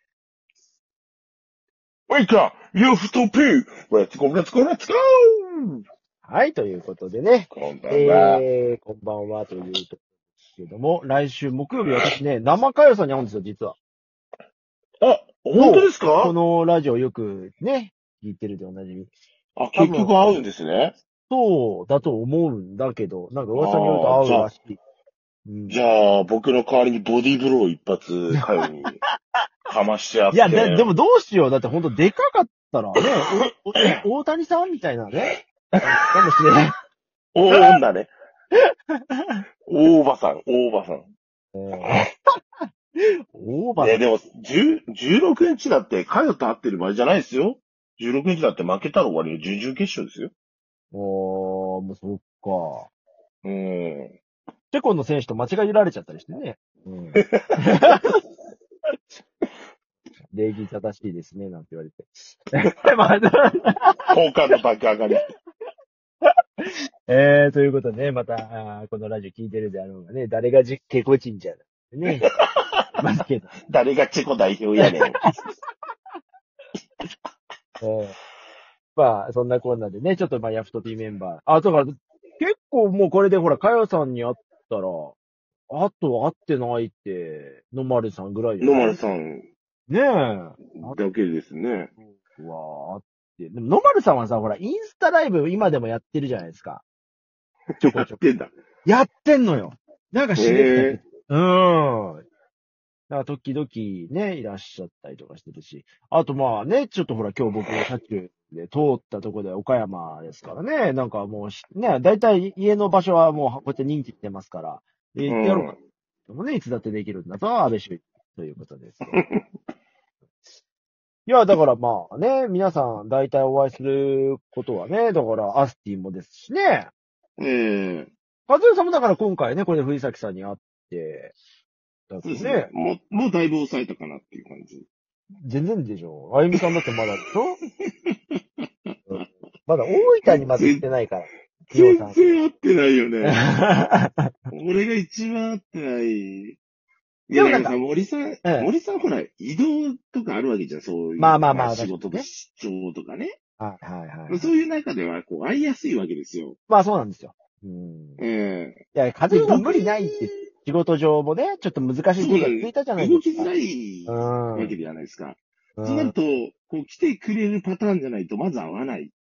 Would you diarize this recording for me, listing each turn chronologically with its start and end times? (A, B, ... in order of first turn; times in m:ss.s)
0:02.1-0:05.8 A
0:06.2-0:10.0 B
0:07.5-0:08.4 A
0:10.6-0:13.8 B
0:15.0-0:16.4 A
0:15.6-0:19.1 B
0:19.6-0:21.0 A
0:19.8-0:20.2 B
0:21.3-0:24.8 B
0:23.5-0:24.5 A
0:25.5-0:25.8 B
0:25.7-0:29.0 A
0:28.3-0:29.0 B
0:29.7-0:30.9 A
0:30.3-0:36.7 B
0:33.0-0:34.0 A
0:37.3-0:38.1 A
0:37.5-0:37.8 B
0:38.5-0:39.4 B
0:39.7-0:41.1 A
0:41.5-0:42.1 B
0:43.0-0:44.0 B
0:43.8-0:50.3 A
0:50.9-0:52.9 B
0:53.4-0:54.2 A
0:54.7-0:58.2 B
0:57.2-0:58.1 A
1:00.3-1:04.6 B
1:04.1-1:05.2 A
1:06.2-1:12.3 B
1:12.0-1:12.9 A
1:13.0-1:13.6 B
1:13.6-1:15.2 A
1:14.8-1:15.5 B
1:17.8-1:18.2 B
1:19.0-1:25.2 B
1:25.7-1:29.0 B
1:28.6-1:29.5 A
1:29.9-1:31.0 B
1:30.7-1:31.9 A
1:32.1-1:36.8 B
1:37.8-1:38.5 A
1:37.8-1:38.2 B
1:38.8-1:42.2 B
1:40.4-1:41.0 A
1:43.1-1:55.7 B
1:55.3-1:55.8 A
1:56.3-1:59.2 B
1:59.1-1:59.4 A
2:01.3-2:06.9 B
2:07.4-2:08.1 A
2:08.5-2:11.3 B
2:12.1-2:12.7 B
2:12.2-2:14.9 A
2:15.4-2:17.6 B
2:16.5-2:17.3 A
2:17.8-2:19.3 A
2:19.1-2:22.4 B
2:19.9-2:20.8 A
2:21.7-2:23.4 A
2:23.2-2:24.5 B
2:24.5-2:26.6 A
2:27.3-2:33.4 A
2:27.3-2:27.8 B
2:28.4-2:28.7 B
2:31.2-2:32.3 B
2:33.6-2:34.6 B
2:34.3-2:36.6 A
2:36.7-2:38.2 B
2:38.2-2:40.3 A
2:38.9-2:43.5 B
2:42.2-2:49.1 A
2:44.1-2:44.8 B
2:45.8-2:46.2 B